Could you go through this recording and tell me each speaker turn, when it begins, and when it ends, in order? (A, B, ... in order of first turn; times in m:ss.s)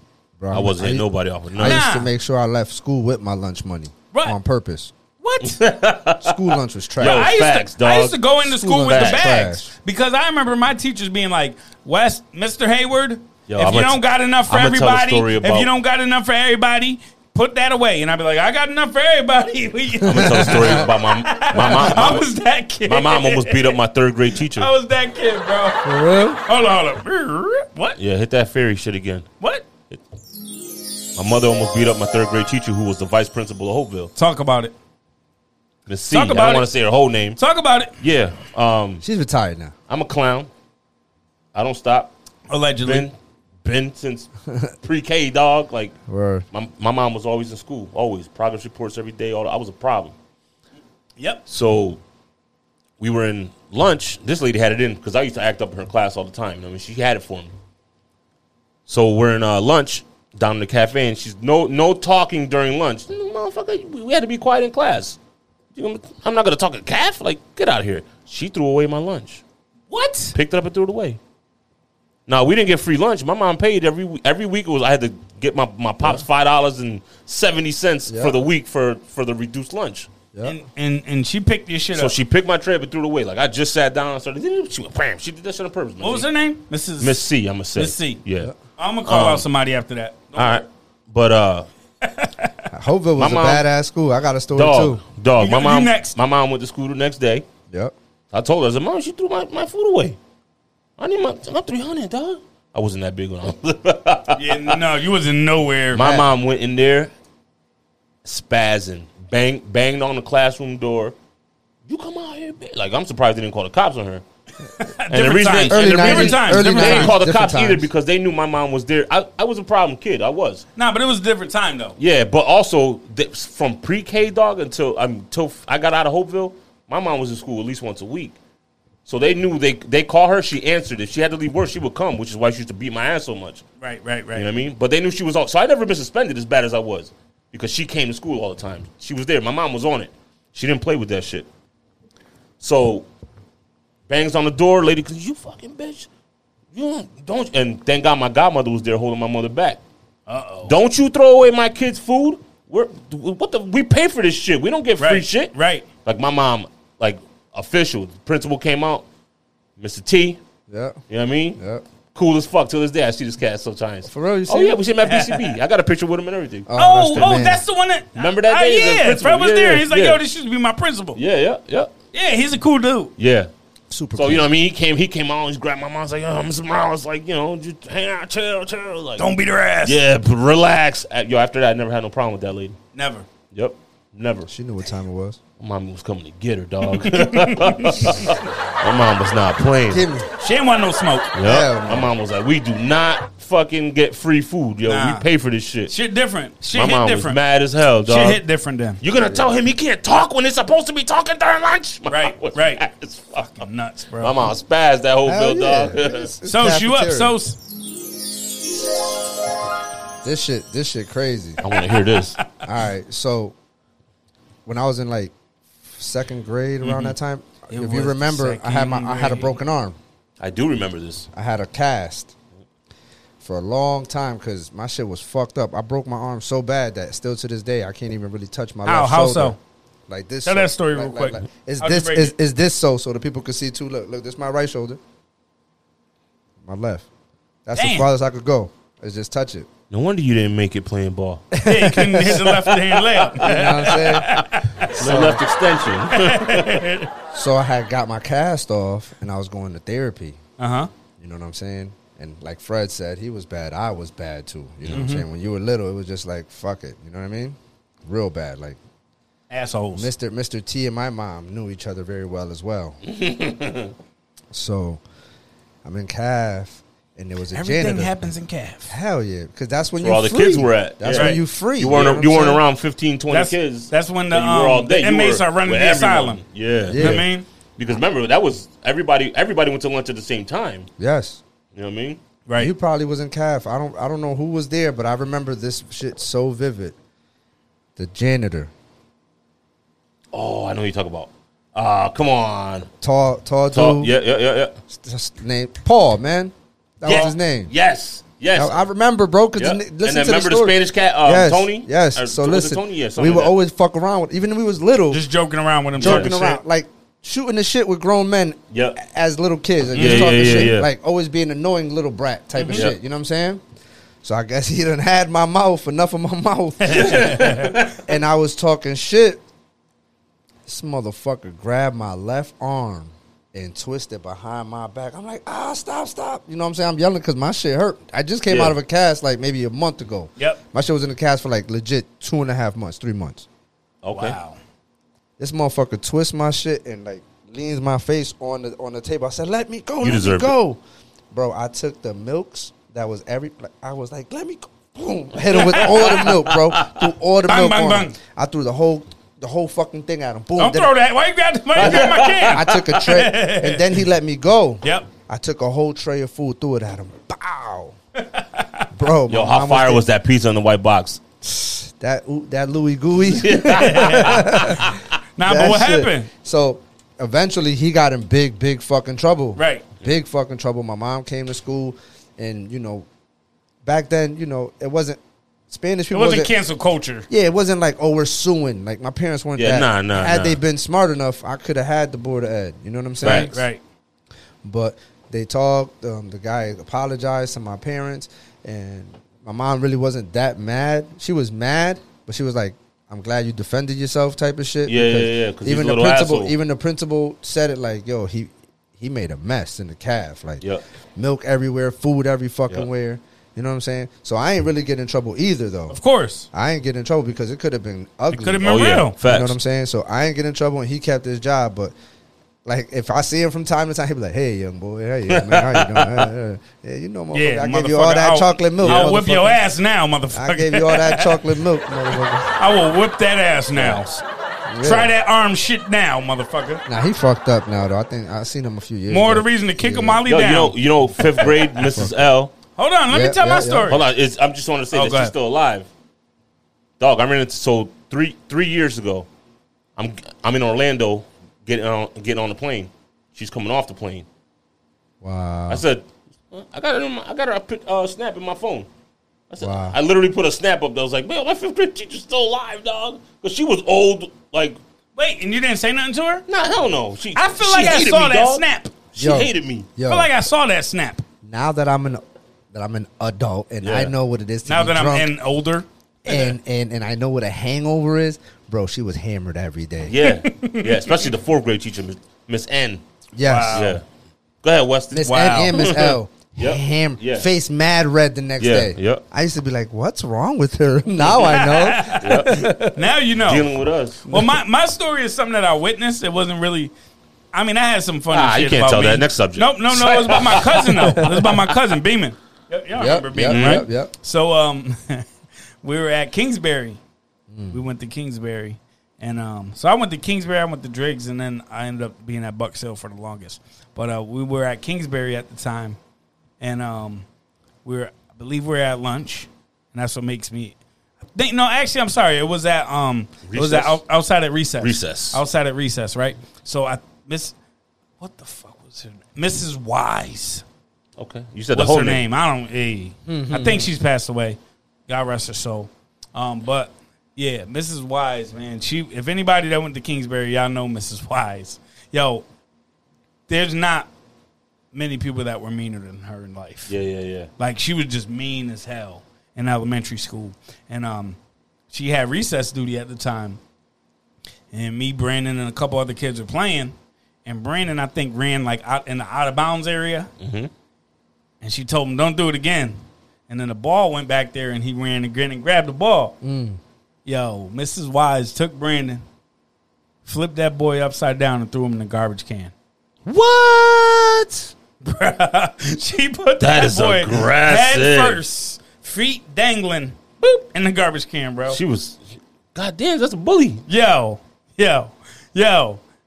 0:00.4-0:04.9 A
0:00.5-0:01.9 B
0:01.6-0:02.1 C
0:05.2-0:05.6 C
0:05.4-0:06.4 B
0:06.2-0:07.3 A
0:07.0-0:08.2 B
0:07.0-0:23.8 C
0:08.4-0:09.6 A
0:08.8-0:09.6 B
0:13.5-0:15.7 B
0:20.0-0:22.2 B
0:20.1-0:20.8 A
0:22.8-0:24.7 B
0:24.5-0:25.8 C
0:25.8-0:26.4 A
0:26.4-0:28.0 C
0:28.0-0:29.3 B
0:29.4-0:29.6 C
0:31.2-0:34.1 B
0:34.2-0:34.7 C
0:35.9-0:37.4 B
0:36.1-0:36.6 C
0:37.4-0:37.9 C
0:38.0-0:39.0 B
0:39.0-0:39.7 A
0:39.9-0:40.5 B
0:41.5-0:42.1 B
0:42.5-0:43.1 C
0:42.8-0:44.3 B
0:44.8-0:46.0 B
0:46.1-0:46.4 A
0:46.5-0:50.1 B
0:51.5-0:52.0 B
0:53.0-0:57.5 B
0:58.9-1:05.2 B
1:05.7-1:09.4 B
1:09.9-1:10.4 C
1:10.3-1:11.2 B
1:12.3-1:20.1 B
1:18.1-1:18.4 A
1:20.3-1:20.6 A
1:20.4-1:22.1 C
1:21.9-1:26.3 B
1:26.0-1:27.2 C
1:27.0-1:28.5 B
1:27.7-1:28.2 C
1:28.8-1:30.6 C
1:29.0-1:29.5 B
1:30.4-1:31.7 B
1:32.0-1:32.5 C
1:32.7-1:35.0 A
1:33.2-1:33.6 B
1:34.5-1:37.4 B
1:35.4-1:36.1 C
1:38.3-1:40.2 B
1:41.0-1:44.8 B
1:44.4-1:46.0 C
1:45.9-1:47.1 B
1:46.0-1:46.3 A
1:48.2-1:51.1 B
1:51.9-1:54.2 B
1:54.8-1:57.1 C
1:55.1-2:00.6 B
1:55.7-1:57.8 A
2:00.8-2:02.0 C
2:02.0-2:08.4 B
2:09.0-2:13.6 B
2:13.8-2:14.5 C
2:14.3-2:21.5 B
2:22.6-2:23.1 B
2:24.1-2:26.1 B
2:26.7-2:29.8 B
2:30.3-2:30.7 C
2:30.6-2:39.0 B
2:35.0-2:35.8 C
2:39.8-2:40.4 B
2:40.7-2:41.0 A
2:41.1-2:41.6 B
2:41.6-2:41.8 A
2:42.1-2:46.7 B
2:44.0-2:44.8 A
2:45.0-2:45.4 C
2:46.6-2:47.6 A
2:46.8-2:51.2 C
2:48.2-2:50.2 B
2:51.2-2:51.9 B
2:52.1-2:53.1 C
2:53.2-2:53.5 B
2:53.9-2:54.5 A
2:54.2-2:59.3 B
2:59.2-3:00.0 C
2:59.8-3:02.8 B
3:02.9-3:03.2 C
3:03.5-3:04.5 B
3:04.5-3:05.4 A
3:05.6-3:10.0 B
3:06.8-3:08.3 C
3:09.9-3:10.3 A
3:10.4-3:11.3 C
3:11.3-3:15.9 B
3:11.4-3:12.1 A
3:14.9-3:15.3 C
3:15.9-3:17.4 C
3:16.7-3:18.4 B
3:18.0-3:19.0 C
3:19.0-3:23.6 B
3:19.2-3:19.5 A
3:22.1-3:22.8 C
3:23.4-3:24.4 C
3:24.2-3:26.3 B
3:25.2-3:27.3 A
3:26.4-3:27.6 C
3:30.2-3:31.6 A
3:31.6-3:32.4 B
3:31.7-3:32.6 C
3:32.6-3:33.5 A
3:34.6-3:40.0 A
3:36.8-3:37.1 C
3:37.7-3:39.5 C
3:40.4-3:41.3 B
3:41.3-3:42.3 A
3:43.4-3:49.6 A
3:48.8-3:49.6 C
3:50.1-3:55.0 A
3:50.4-3:52.3 C
3:56.6-3:57.0 A
3:57.6-3:59.7 A
3:57.7-3:58.1 C
3:59.9-4:01.4 B
4:01.5-4:02.7 A
4:01.6-4:05.2 C
4:03.3-4:06.8 B
4:03.4-4:04.3 A
4:05.0-4:05.4 A
4:06.1-4:07.1 C
4:07.3-4:10.4 A
4:10.6-4:10.9 C
4:11.2-4:18.8 A
4:14.9-4:15.2 C
4:19.5-4:20.1 C
4:19.9-4:23.0 A
4:23.0-4:23.9 B
4:24.5-4:25.0 A
4:25.8-4:28.3 A
4:27.5-4:28.9 C
4:28.9-4:32.6 A
4:30.0-4:37.2 B
4:31.1-4:31.4 C
4:33.3-4:36.4 C
4:36.9-4:37.2 A
4:37.0-4:37.4 C
4:37.8-4:40.9 B
4:41.0-4:41.4 A
4:41.7-4:42.2 B
4:42.5-4:42.7 C
4:42.6-4:47.0 A
4:48.0-4:48.7 A
4:50.3-4:52.9 B
4:53.0-4:54.1 A
4:53.7-4:54.7 B
4:54.9-4:57.7 A
4:57.0-4:58.7 B
4:58.5-5:05.2 A
4:59.6-5:03.5 B
5:05.1-5:06.6 C
5:06.0-5:13.6 A
5:06.0-5:06.5 B
5:08.7-5:09.0 B
5:09.9-5:10.9 B
5:10.0-5:10.5 C
5:12.6-5:12.8 C
5:14.2-5:19.4 A
5:16.8-5:17.9 C
5:17.0-5:17.8 B
5:20.6-5:33.4 A
5:28.5-5:28.8 B
5:34.0-5:34.4 B
5:34.1-5:34.6 C
5:35.4-5:40.8 A
5:40.0-5:40.6 B
5:41.3-5:50.9 A
5:45.5-5:47.0 B
5:47.4-5:48.2 C
5:50.6-5:53.9 C
5:51.8-5:52.6 B
5:51.8-5:57.9 A
5:54.8-5:55.1 C
5:58.3-5:58.9 C
5:58.9-6:00.0 A
5:59.3-6:01.2 B
6:01.4-6:13.0 A
6:03.4-6:05.0 B
6:03.7-6:04.8 C
6:05.4-6:06.3 C
6:09.6-6:09.8 C
6:13.8-6:16.5 A
6:16.1-6:17.3 C
6:17.3-6:23.6 A
6:19.6-6:20.6 B
6:23.2-6:23.5 B
6:23.2-6:23.8 C
6:24.6-6:40.6 A
6:34.8-6:36.5 B
6:41.2-6:46.0 A
6:45.9-6:46.5 C
6:46.5-6:51.9 A
6:48.3-6:49.1 C
6:48.6-6:49.6 B
6:52.6-6:59.6 A
6:55.3-6:56.3 B
6:57.3-7:01.4 C
6:58.8-6:59.1 B
7:00.3-7:02.5 A
7:02.6-7:04.2 C
7:03.7-7:04.1 B
7:04.7-7:05.1 A
7:04.8-7:06.8 C
7:06.8-7:10.2 A
7:09.1-7:10.8 C
7:10.2-7:12.5 B
7:11.4-7:12.3 A
7:12.8-7:14.0 C
7:13.1-7:14.0 A
7:13.9-7:15.9 B
7:14.9-7:15.3 C
7:17.0-7:19.3 B
7:20.0-7:24.2 B
7:25.2-7:25.8 A
7:25.7-7:28.9 B
7:29.5-7:34.8 B
7:29.6-7:30.0 A
7:35.2-7:36.4 C
7:36.5-7:39.9 B
7:37.3-7:38.9 C
7:39.2-7:40.3 A
7:40.1-7:41.2 C
7:41.4-7:45.3 A
7:43.8-7:44.1 B
7:44.6-7:45.8 C
7:46.2-7:50.1 A
7:50.1-7:53.0 B
7:50.2-7:51.2 C
7:53.3-7:54.0 A
7:53.4-7:54.0 C
7:53.7-7:54.0 B
7:54.6-7:57.5 B
7:55.1-8:03.0 A
7:55.2-7:56.1 C
7:58.6-7:59.2 B
8:01.4-8:03.6 C
8:02.2-8:02.7 B
8:03.4-8:04.5 B
8:04.3-8:06.9 C
8:07.5-8:15.2 C
8:08.3-8:11.7 B
8:13.0-8:14.1 A
8:13.4-8:13.8 B
8:15.8-8:17.0 C
8:17.5-8:17.8 A
8:17.7-8:26.0 C
8:26.6-8:27.2 C
8:27.8-8:30.7 C
8:31.3-8:37.5 C
8:33.4-8:34.0 B
8:34.8-8:35.4 B
8:38.2-8:40.6 C
8:41.2-8:42.2 B
8:41.7-8:52.4 C
8:43.3-8:43.9 A
8:53.5-8:54.1 C
8:54.9-8:56.9 C
8:56.9-8:57.5 B
8:57.6-9:01.4 C
9:01.9-9:03.6 C
9:04.7-9:06.9 C
9:07.4-9:10.3 C
9:10.4-9:10.7 B
9:11.6-9:13.0 C
9:13.5-9:16.4 C
9:16.4-9:16.8 A
9:17.2-9:19.2 C
9:20.2-9:22.7 C
9:23.2-9:24.7 B
9:25.0-9:31.8 C
9:26.6-9:28.4 B
9:31.7-9:32.2 B
9:32.7-9:33.8 B
9:33.9-9:36.0 C